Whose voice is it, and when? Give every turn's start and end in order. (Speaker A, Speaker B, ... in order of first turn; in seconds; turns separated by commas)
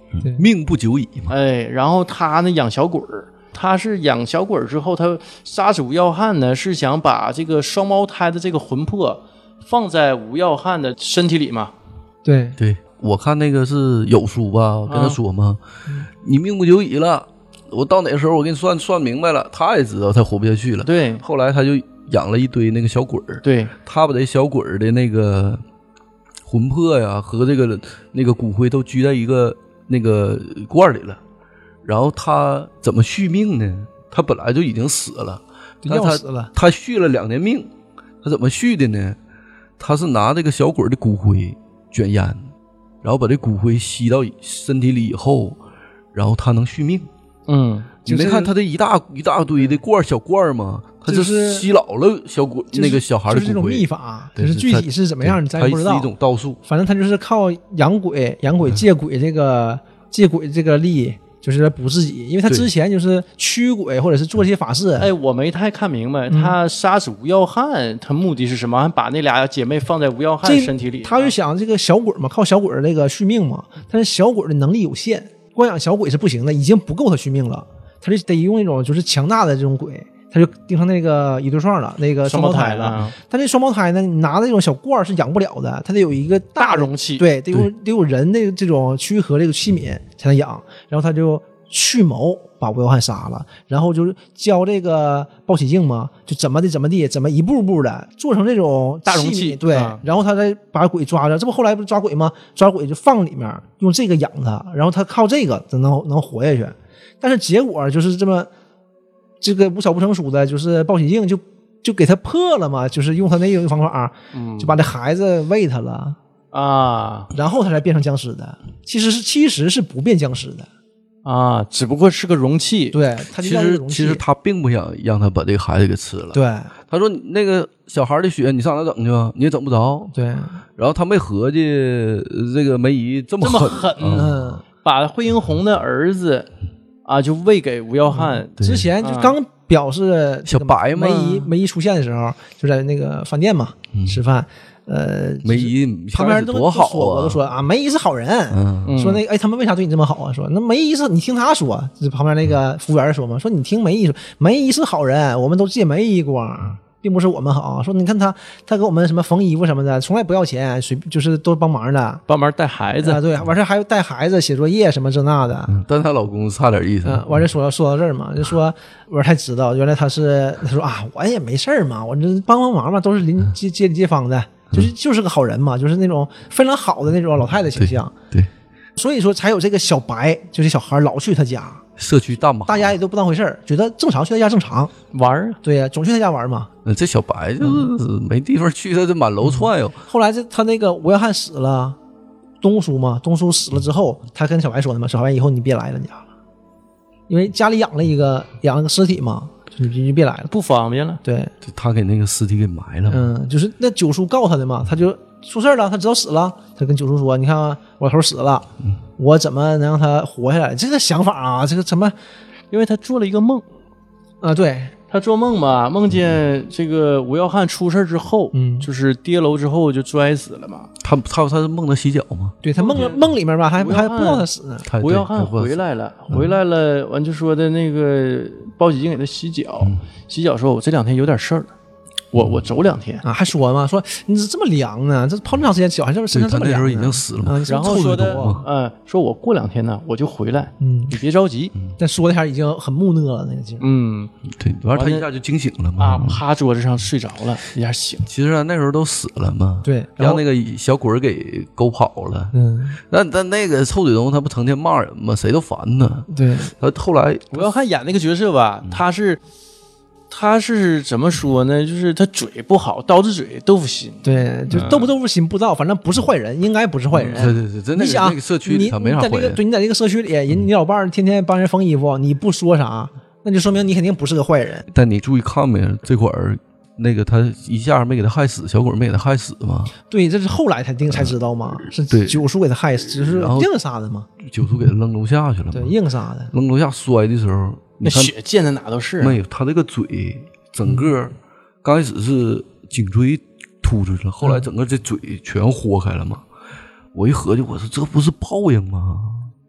Speaker A: 0.2-1.3, Speaker B: 1.3-11.7, Speaker C: 12.2-12.6, Speaker A: 12.6-15.6, Speaker B: 14.9-15.2, Speaker A: 16.1-25.6, Speaker B: 20.8-21.2, Speaker B: 23.4-23.7, Speaker A: 26.4-31.2, Speaker A: 31.8-37.7, Speaker C: 35.8-36.5, Speaker A: 38.2-39.2, Speaker A: 39.8-42.5, Speaker A: 43.0-45.6, Speaker A: 46.1-47.1, Speaker B: 47.5-47.9, Speaker C: 48.0-48.5, Speaker A: 48.0-56.6, Speaker C: 51.0-51.7, Speaker C: 52.7-56.1, Speaker C: 56.6-65.1, Speaker B: 65.0-71.3, Speaker C: 66.3-66.5, Speaker C: 70.4-108.5, Speaker B: 82.2-83.1, Speaker B: 86.6-87.2, Speaker B: 99.0-100.0, Speaker C: 109.4-116.2, Speaker B: 114.3-114.8, Speaker B: 116.5-117.3, Speaker C: 117.3-120.7, Speaker B: 121.2-123.0, Speaker C: 122.9-124.2, Speaker A: 123.4-130.1, Speaker C: 126.3-126.7, Speaker C: 130.1-130.6, Speaker A: 130.8-134.3, Speaker B: 133.4-136.5, Speaker C: 134.1-134.6, Speaker B: 137.1-139.3, Speaker C: 138.1-162.2, Speaker A: 138.6-138.9, Speaker A: 140.5-141.5, Speaker A: 143.9-144.2, Speaker A: 145.4-147.4, Speaker A: 148.5-148.9, Speaker B: 148.8-149.2, Speaker B: 162.3-163.2, Speaker C: 163.0-165.7, Speaker A: 165.7-167.4, Speaker C: 167.0-178.1, Speaker A: 177.8-178.5, Speaker C: 178.9-181.8, Speaker A: 182.0-182.9, Speaker C: 182.7-184.9, Speaker B: 185.1-185.6, Speaker C: 185.6-186.7, Speaker A: 186.8-190.0, Speaker C: 187.6-187.8, Speaker C: 189.4-192.0, Speaker C: 192.6-196.2, Speaker C: 197.3-200.5, Speaker B: 200.5-201.2, Speaker C: 201.2-201.5, Speaker A: 201.6-203.3, Speaker C: 203.1-208.7, Speaker C: 209.2-212.1, Speaker B: 212.7-213.6, Speaker C: 214.4-214.9, Speaker B: 215.1-220.9, Speaker C: 218.5-218.9, Speaker A: 221.0-222.6, Speaker C: 222.6-224.8, Speaker B: 222.8-224.5, Speaker A: 224.9-225.8, Speaker B: 225.0-231.7, Speaker B: 232.3-233.2, Speaker C: 233.2-238.6, Speaker A: 236.3-238.6, Speaker B: 237.7-241.7, Speaker C: 240.8-241.2, Speaker C: 242.0-243.8, Speaker B: 243.8-244.3, Speaker A: 244.5-246.4, Speaker B: 244.9-245.3, Speaker B: 246.0-248.3, Speaker A: 248.2-257.7, Speaker C: 249.8-250.4, Speaker C: 252.5-253.0, Speaker C: 256.3-256.7, Speaker B: 257.5-259.4, Speaker B: 260.3-265.1, Speaker C: 264.2-274.9, Speaker B: 267.1-267.5, Speaker A: 267.3-269.6, Speaker A: 274.9-279.9, Speaker C: 280.1-284.3, Speaker A: 281.1-282.4, Speaker A: 283.0-283.7, Speaker A: 284.4-285.9, Speaker C: 285.7-286.5, Speaker A: 286.5-288.3, Speaker B: 288.0-289.4, Speaker A: 289.2-296.4, Speaker A: 297.1-299.5